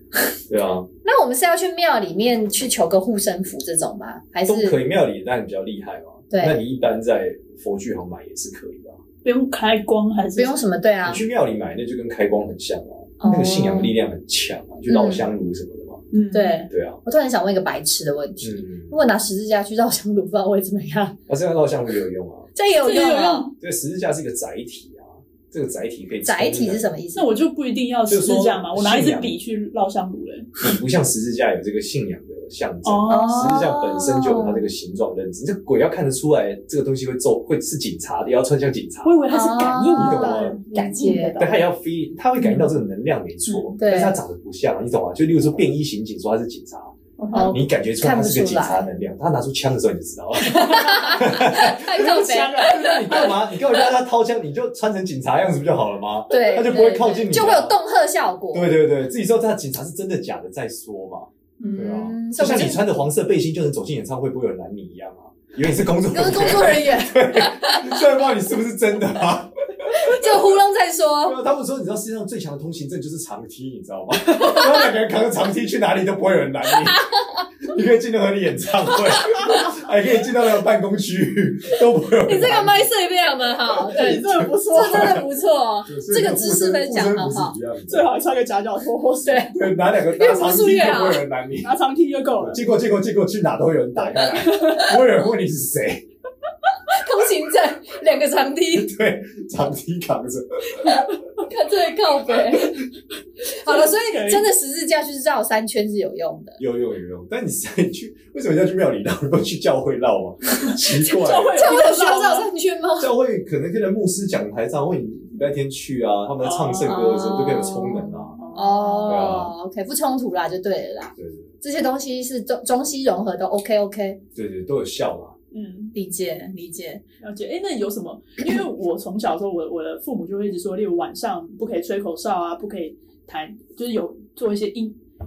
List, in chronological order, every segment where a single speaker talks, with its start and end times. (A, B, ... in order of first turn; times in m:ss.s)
0:00.5-0:00.9 A
0:01.0-0:04.8 B
0:04.5-0:09.0 A
0:06.3-0:06.6 B
0:09.2-0:10.6 C
0:10.4-0:11.2 B
0:11.0-0:16.0 A
0:13.2-0:13.9 B
0:14.9-0:15.3 B
0:16.1-0:16.6 C
0:16.3-0:21.2 B
0:16.7-0:17.0 A
0:18.4-0:19.0 A
0:21.3-0:22.5 A
0:22.6-0:23.5 B
0:22.8-0:23.5 C
0:23.6-0:26.9 A
0:26.2-0:27.3 B
0:27.2-0:30.6 C
0:28.1-0:29.4 A
0:30.6-0:39.2 A
0:32.8-0:33.7 C
0:33.1-0:34.6 B
0:39.0-0:41.7 C
0:39.3-0:41.4 B
0:39.9-0:40.6 A
0:41.4-0:47.0 A
0:42.4-0:42.7 C
0:43.8-0:44.2 B
0:47.2-0:47.6 C
0:47.3-0:48.9 B
0:47.5-0:57.8 A
0:50.4-0:53.0 B
0:51.9-0:53.3 C
0:56.3-0:58.7 B
0:58.5-1:10.5 A
1:01.6-1:02.9 B
1:06.1-1:08.0 B
1:09.9-1:11.4 B
1:11.2-1:17.1 A
1:14.3-1:14.9 B
1:16.7-1:17.4 B
1:17.6-1:22.9 A
1:19.1-1:19.7 B
1:22.2-1:27.6 B
1:23.8-1:25.2 C
1:24.0-1:25.2 A
1:25.9-1:28.1 A
1:27.9-1:29.5 C
1:29.2-1:31.2 B
1:29.5-1:31.7 A
1:31.6-1:32.6 C
1:32.4-1:36.0 A
1:34.1-1:35.0 C
1:36.9-1:38.9 B
1:38.7-1:41.1 A
1:41.4-1:42.8 B
1:43.5-1:46.6 B
1:43.6-1:44.5 C
1:46.6-1:51.8 A
1:51.0-1:52.5 C
1:51.4-1:53.1 B
1:53.0-1:58.4 A
1:56.4-1:57.1 C
1:56.8-2:04.2 B
1:58.4-1:59.3 C
1:59.1-1:59.5 A
2:01.2-2:01.5 A
2:04.4-2:05.4 A
2:05.5-2:06.0 C
2:05.9-2:07.0 B
2:07.2-2:15.0 C